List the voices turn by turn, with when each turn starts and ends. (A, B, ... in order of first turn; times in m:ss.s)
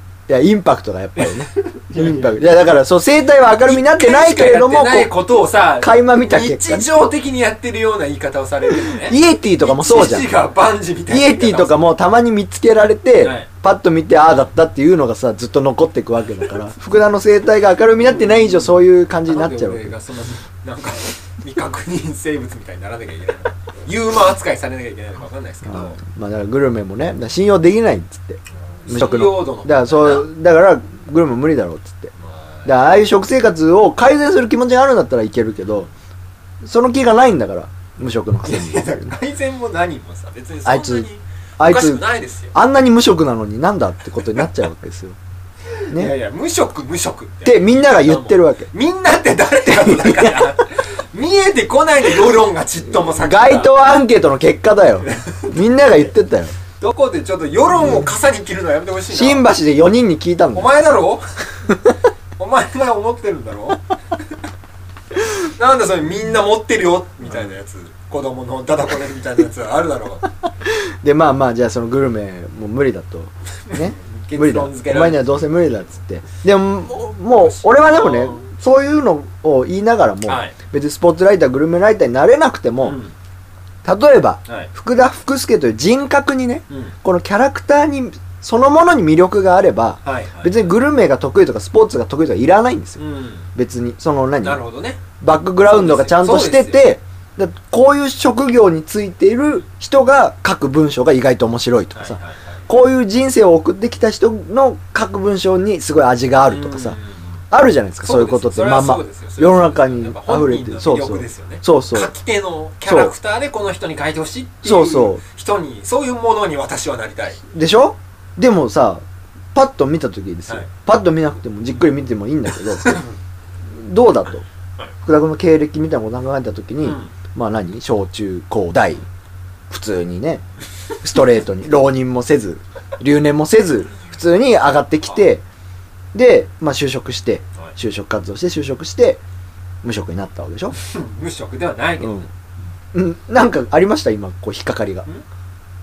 0:00.3-0:05.1 A
0:01.2-0:02.4 B
0:03.6-0:11.9 B
0:05.8-0:06.9 A
0:09.0-0:10.3 A
0:11.1-0:20.0 A
0:13.2-0:13.5 B
0:19.3-0:26.0 B
0:25.7-0:32.1 A
0:28.8-0:30.3 B
0:32.2-0:32.8 B
0:32.6-0:35.9 A
0:36.6-0:39.2 A
0:38.4-0:42.5 B
0:40.6-0:41.1 A
0:41.6-0:45.2 A
0:45.8-0:53.7 B
0:47.4-0:48.7 A
0:49.7-0:50.5 A
0:52.9-0:56.6 A
0:55.0-0:55.6 B
0:56.8-0:59.5 B
0:57.8-0:58.1 A
0:59.1-1:00.7 A
1:00.5-1:01.2 B
1:02.4-1:03.8 B
1:05.6-1:10.2 B
1:10.6-1:23.0 A
1:13.7-1:15.6 B
1:17.3-1:18.4 B
1:20.3-1:20.5 B
1:22.8-1:23.1 B
1:23.8-1:33.0 A
1:26.7-1:27.0 B
1:30.0-1:30.8 B
1:33.0-1:33.5 B
1:33.6-1:34.6 A
1:34.4-1:35.0 B
1:35.2-1:47.0 A
1:35.6-1:36.9 B
1:42.0-1:42.6 B
1:46.5-1:47.4 B
1:47.5-1:52.1 A
1:48.0-1:57.4 B
1:52.8-1:53.1 A
1:54.6-1:55.2 A
1:57.5-2:03.0 A
2:02.8-2:03.2 B
2:03.7-2:04.4 A
2:05.0-2:09.0 A
2:06.8-2:07.1 B
2:09.7-2:10.4 A
2:11.0-2:15.4 A
2:16.1-2:19.2 A
2:19.8-2:20.8 A
2:20.8-2:22.3 B
2:22.0-2:22.3 A
2:22.9-2:25.1 A